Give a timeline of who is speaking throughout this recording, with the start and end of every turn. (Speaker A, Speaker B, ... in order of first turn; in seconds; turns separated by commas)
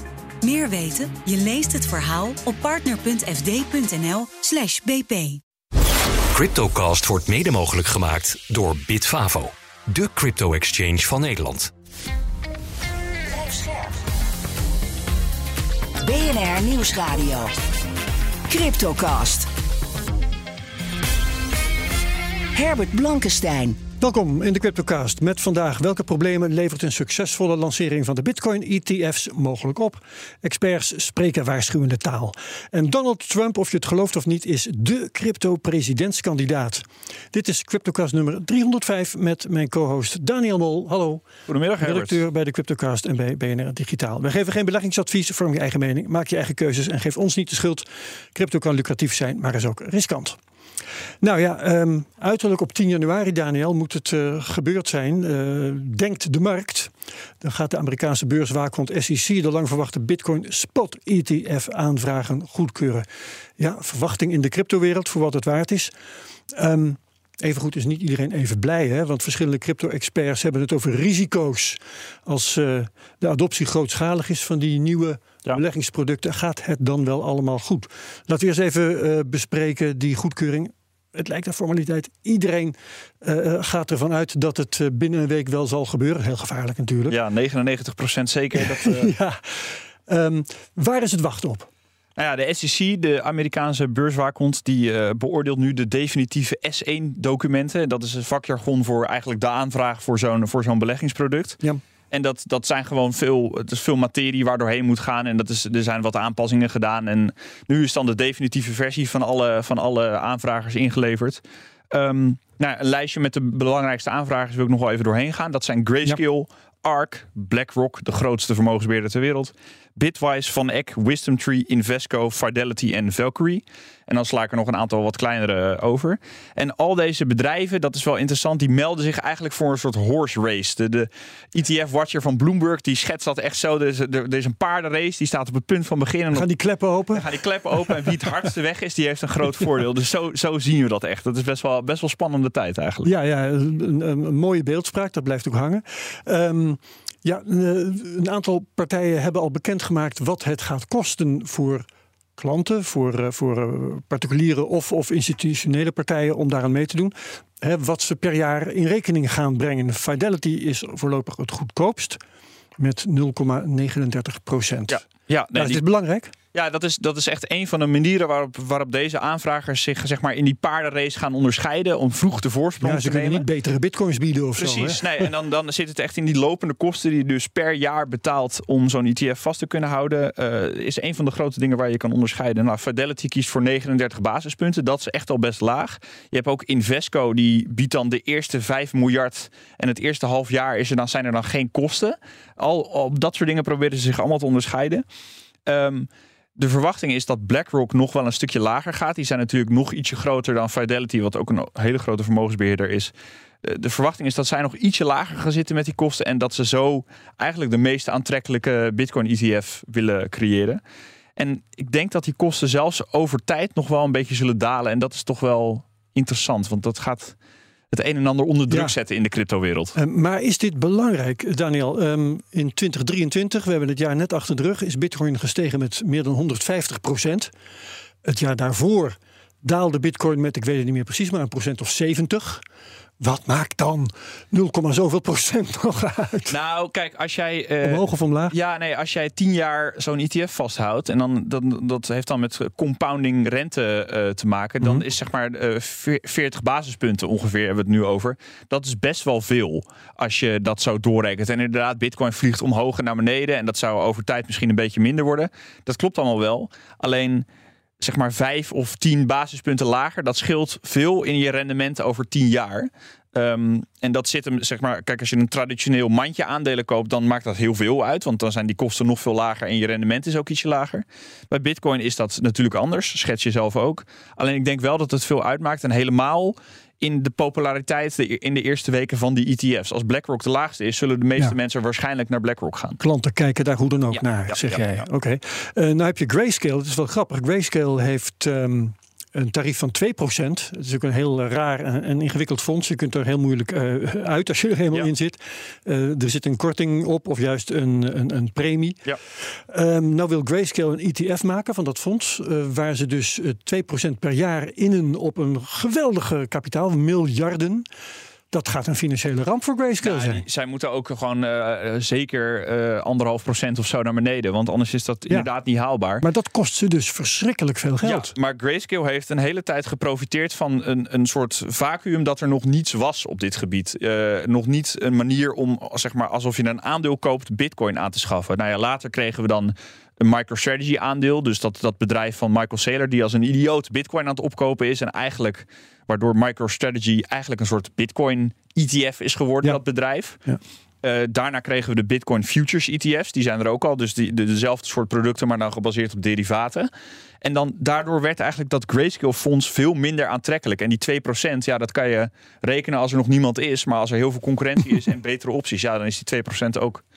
Speaker A: 0.4-5.4, Speaker B: 6.3-11.7, Speaker C: 13.3-14.0, Speaker C: 16.0-17.5, Speaker C: 18.5-19.5, Speaker C: 22.5-23.8, Speaker D: 24.0-41.3, Speaker E: 41.5-42.2, Speaker D: 41.8-50.4, Speaker D: 51.2-63.1, Speaker D: 63.6-65.9, Speaker D: 66.5-87.2, Speaker E: 87.1-89.1, Speaker D: 88.5-91.7, Speaker E: 92.2-136.5, Speaker D: 136.3-138.2, Speaker E: 137.1-143.1, Speaker D: 143.0-151.9, Speaker D: 152.4-162.2, Speaker D: 162.8-166.3, Speaker E: 164.9-165.8, Speaker E: 166.5-173.4, Speaker D: 172.8-175.3, Speaker E: 174.6-195.1, Speaker E: 195.7-210.8, Speaker E: 211.4-217.4, Speaker E: 217.9-219.9, Speaker D: 218.7-218.9, Speaker D: 219.9-227.5, Speaker D: 228.2-232.6, Speaker D: 233.2-236.6, Speaker E: 236.5-257.4, Speaker D: 237.8-238.6, Speaker E: 258.0-283.0, Speaker D: 283.0-307.9, Speaker E: 284.1-285.1, Speaker D: 308.5-310.4, Speaker E: 310.0-316.2, Speaker D: 316.2-318.3, Speaker E: 318.0-340.4, Speaker E: 341.0-346.9, Speaker E: 347.4-357.0